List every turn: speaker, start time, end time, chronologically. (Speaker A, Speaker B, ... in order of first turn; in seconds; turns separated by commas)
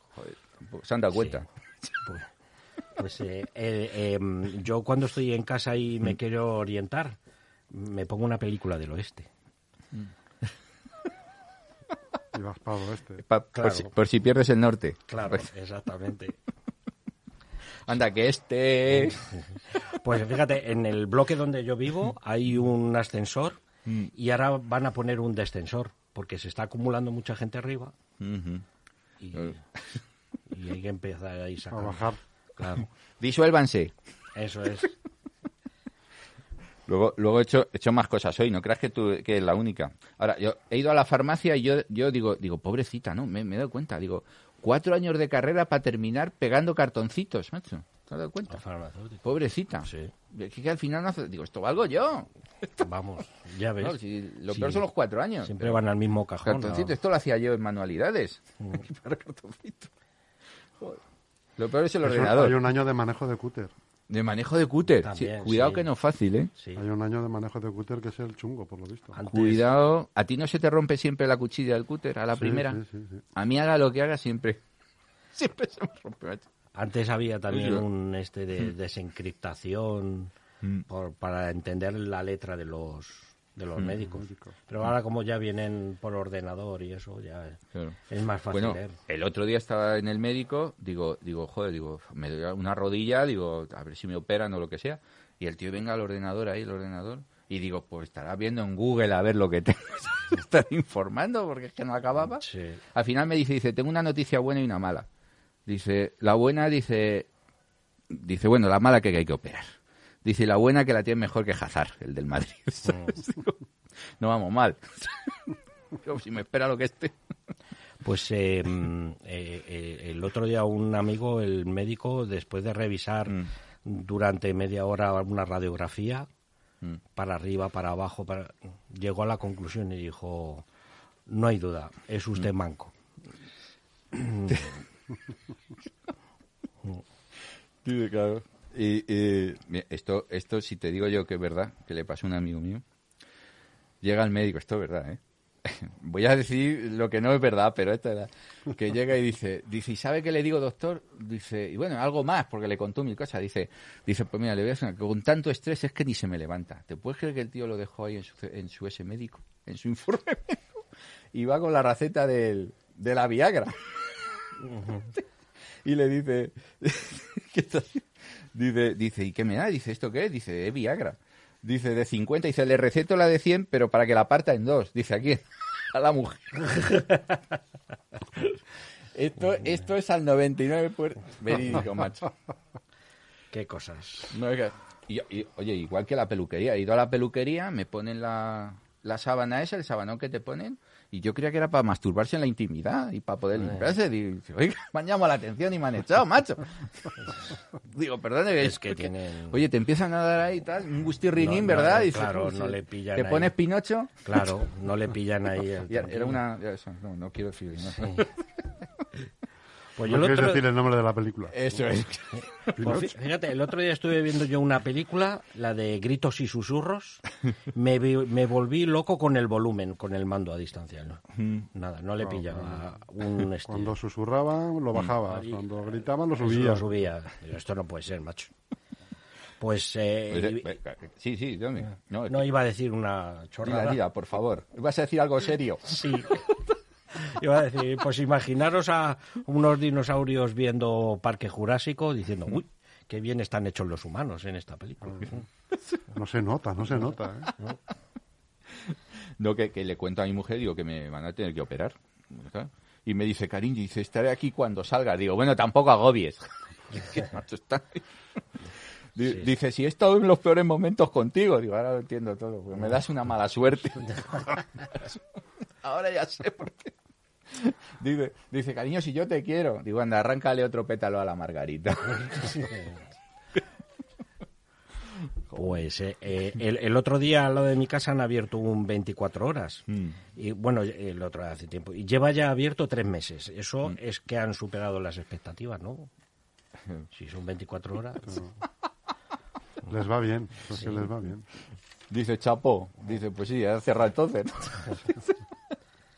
Speaker A: 0.1-1.4, Speaker B: 1.1-1.4, Speaker B: 2.0-2.3, Speaker B: 3.0-7.2, Speaker B: 7.7-9.3, Speaker C: 12.3-13.2, Speaker A: 13.3-15.4, Speaker B: 13.5-13.9, Speaker B: 15.1-16.4, Speaker A: 17.9-19.2, Speaker B: 19.8-23.6, Speaker A: 23.9-24.1, Speaker B: 24.1-27.9, Speaker A: 28.2-28.6, Speaker B: 29.2-29.6, Speaker B: 30.5-32.9, Speaker C: 31.7-32.2, Speaker A: 33.2-33.9, Speaker B: 34.3-34.9, Speaker A: 36.9-48.6, Speaker B: 48.5-49.2, Speaker A: 49.2-52.3, Speaker B: 49.8-50.1, Speaker B: 52.8-54.0, Speaker A: 53.8-55.8, Speaker B: 54.5-54.8, Speaker B: 55.4-56.9, Speaker A: 56.4-59.9, Speaker A: 61.6-62.6, Speaker C: 62.0-63.7, Speaker A: 64.1-66.5, Speaker B: 65.0-65.9, Speaker B: 66.6-66.8, Speaker C: 66.7-69.2, Speaker B: 69.1-69.7, Speaker A: 69.3-72.8, Speaker C: 72.3-73.2, Speaker A: 73.3-74.6, Speaker A: 75.3-76.4, Speaker B: 76.7-80.3, Speaker A: 77.5-77.8, Speaker B: 80.9-89.0, Speaker C: 84.2-84.5, Speaker A: 88.5-105.1, Speaker B: 102.4-102.8, Speaker A: 105.7-107.3, Speaker A: 108.1-109.7, Speaker A: 110.2-113.6, Speaker A: 114.2-115.3, Speaker A: 116.0-117.1, Speaker B: 118.0-126.3, Speaker B: 127.2-130.6, Speaker B: 131.3-132.9, Speaker B: 134.1-134.7, Speaker A: 137.8-142.8, Speaker A: 144.0-160.8, Speaker A: 161.3-163.8, Speaker B: 164.7-165.0, Speaker A: 165.8-177.0, Speaker A: 179.1-182.3, Speaker B: 183.5-184.3, Speaker A: 184.3-197.1, Speaker A: 197.9-204.2, Speaker B: 198.6-199.6, Speaker B: 201.4-203.5, Speaker B: 204.2-206.4, Speaker A: 205.9-208.3, Speaker B: 208.0-208.3, Speaker B: 210.0-210.7, Speaker C: 210.1-211.7, Speaker A: 211.5-213.0, Speaker B: 212.7-221.2, Speaker C: 212.8-213.1, Speaker A: 221.3-221.7, Speaker B: 221.7-223.9, Speaker C: 222.2-222.8, Speaker C: 223.7-226.9, Speaker B: 225.3-225.6, Speaker B: 226.4-228.5, Speaker B: 229.6-230.8, Speaker A: 230.3-232.5, Speaker B: 232.3-234.0, Speaker A: 233.6-236.0, Speaker B: 235.8-236.5, Speaker B: 237.1-245.4, Speaker C: 246.1-247.7, Speaker A: 248.9-258.0, Speaker A: 259.1-265.2, Speaker A: 265.8-266.9, Speaker A: 267.5-272.6, Speaker B: 272.1-273.0, Speaker B: 275.5-279.8, Speaker A: 279.9-280.1, Speaker B: 280.4-286.1, Speaker B: 287.1-288.5, Speaker C: 289.9-291.4, Speaker A: 292.1-295.3